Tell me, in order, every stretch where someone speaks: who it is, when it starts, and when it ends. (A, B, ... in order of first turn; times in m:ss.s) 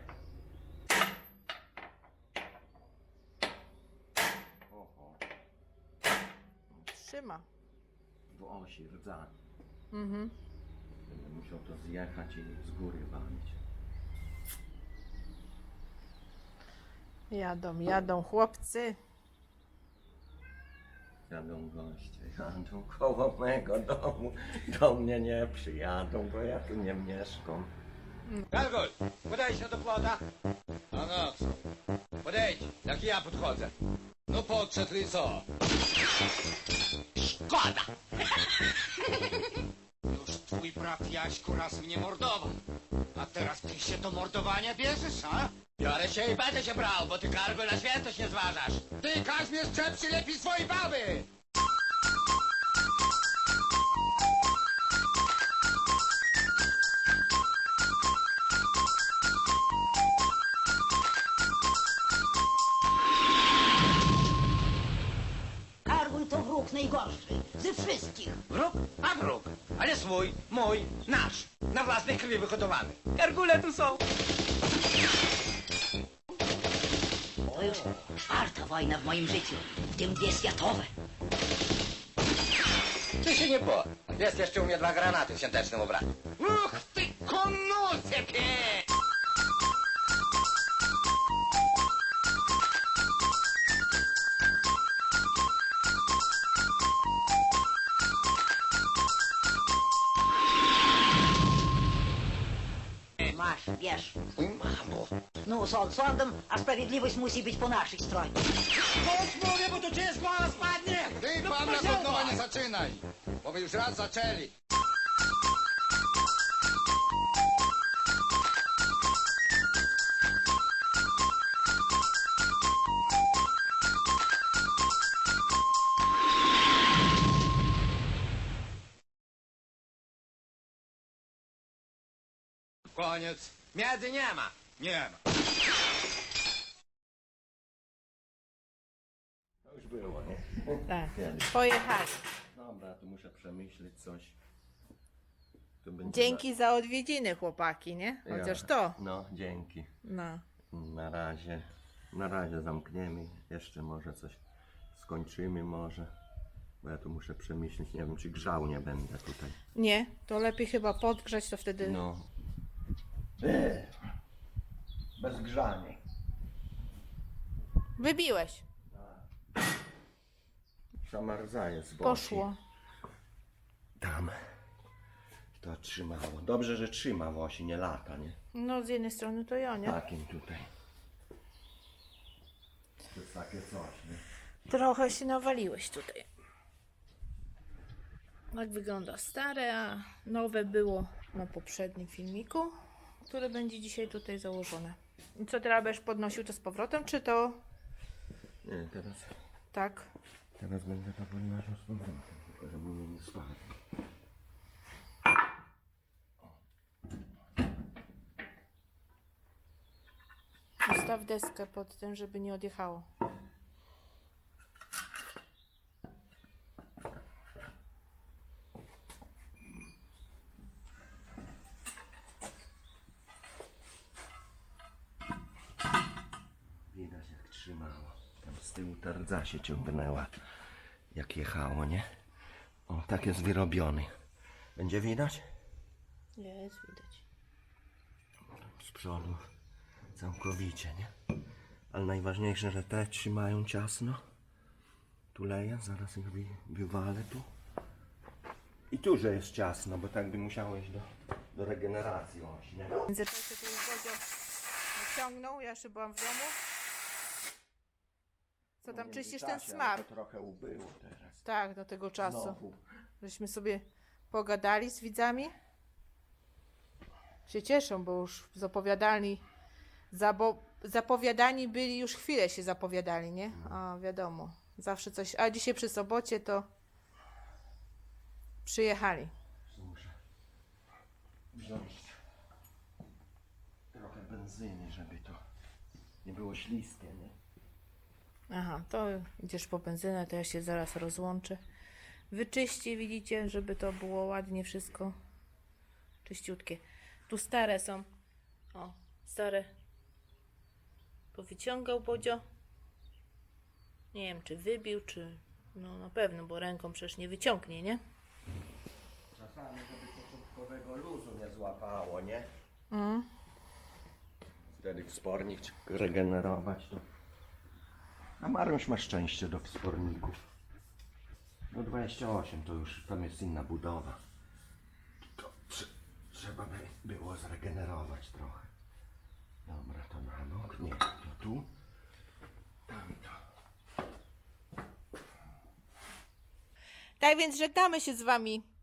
0:04.7-0:05.2 A
0:06.7-0:07.5 B
0:08.3-0:09.3 A
0:09.9-0:10.3 B
0:11.1-0:13.6 A
0:17.3-0:19.0 B
0:21.3-0:27.7 A
0:28.5-0:30.2 C
0:30.9-0:31.6 C
0:32.2-0:33.7 C
0:34.3-0:35.4 C
0:37.2-0:37.9 C
0:40.1-0:42.6 C
0:43.2-0:51.3 C
1:05.9-1:08.5 D
1:08.5-1:13.1 C
1:13.2-1:14.0 B
1:17.5-1:20.9 D
1:17.5-1:17.9 C
1:23.2-1:28.9 C
1:43.2-1:44.2 D
1:44.4-1:45.1 C
1:45.4-1:48.4 D
1:48.8-1:54.5 C
1:51.5-1:52.4 D
2:12.9-2:15.2 C
2:19.6-2:21.5 A
2:20.9-2:22.2 B
2:22.5-2:24.4 A
2:25.8-2:26.4 A
2:26.0-2:29.0 B
2:28.2-2:29.9 A
2:30.0-2:30.4 B
2:30.7-2:34.4 A
2:34.9-2:36.1 A
2:36.8-2:39.6 A
2:39.8-2:42.0 B
2:41.8-2:42.3 A
2:43.4-2:44.0 A
2:45.2-2:46.0 A
2:48.0-2:48.7 B
2:48.9-2:49.3 A
2:51.0-2:52.5 A
2:52.0-2:52.6 B
2:54.0-2:54.4 A
2:55.6-2:58.4 A
2:58.5-3:00.0 B
2:59.8-3:00.7 A
3:03.1-3:04.2 A
3:04.7-3:06.3 B
3:08.5-3:17.6 B
3:18.6-3:19.4 A
3:19.7-3:20.1 B
3:20.6-3:23.8 A
3:30.8-3:33.1 B
3:46.9-3:50.4 A
3:51.1-3:52.0 A
3:52.9-3:54.1 A
3:54.8-3:55.5 A
3:56.4-3:57.2 B
3:58.6-3:59.4 A
4:00.2-4:01.1 A
4:01.9-4:04.2 A
4:05.3-4:07.5 A
4:08.9-4:13.1 A
4:13.1-4:14.2 B
4:15.0-4:16.6 B
4:18.8-4:20.0 B
4:18.9-4:21.4 A
4:21.4-4:22.6 B
4:22.2-4:22.8 A
4:23.2-4:25.5 B
4:27.5-4:29.4 B
4:30.1-4:36.7 B
4:38.6-4:39.3 B
4:39.7-4:40.2 A
4:41.5-4:42.2 A
4:43.9-4:45.4 A
4:46.2-4:47.4 A
4:48.5-4:51.6 B
4:52.3-4:55.1 B
4:56.2-4:58.1 B
4:58.7-4:59.7 B
5:01.3-5:02.4 B
5:04.1-5:08.0 B
5:09.3-5:12.5 A
5:12.9-5:13.3 B
5:14.8-5:17.0 A
5:18.4-5:20.4 A
5:21.7-5:24.2 A
5:25.2-5:28.7 A
5:29.6-5:31.7 A
5:32.9-5:33.4 A
5:37.2-5:38.7 B